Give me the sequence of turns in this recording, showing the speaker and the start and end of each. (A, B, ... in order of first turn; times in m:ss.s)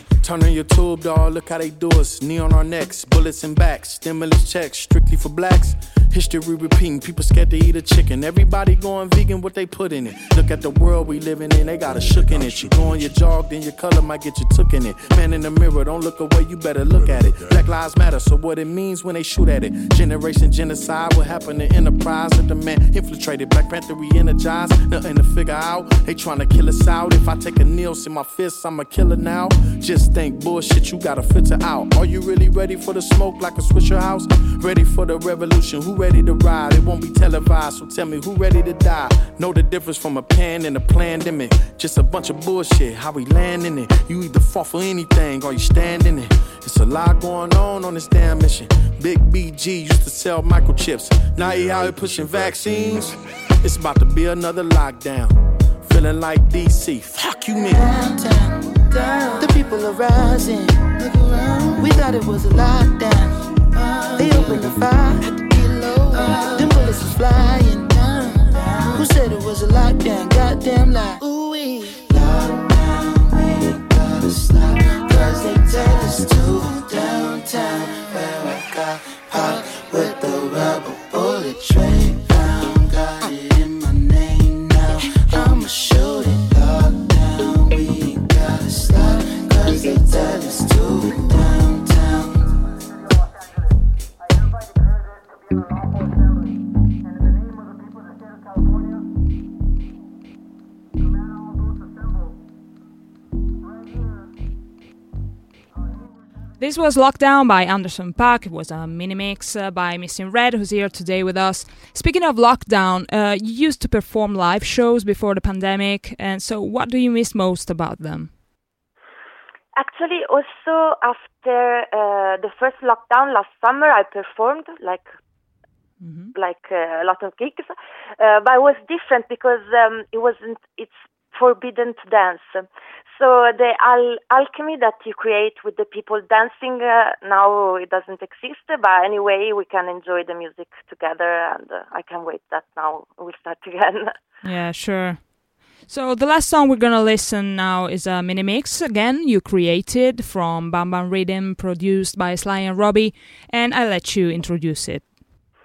0:00.2-0:57.9 A
0:57.7-1:32.5 B
1:46.6-1:58.3 C
1:59.8-2:05.1 D
2:06.0-2:06.3 C
2:06.3-2:24.1 D
2:24.4-2:35.1 C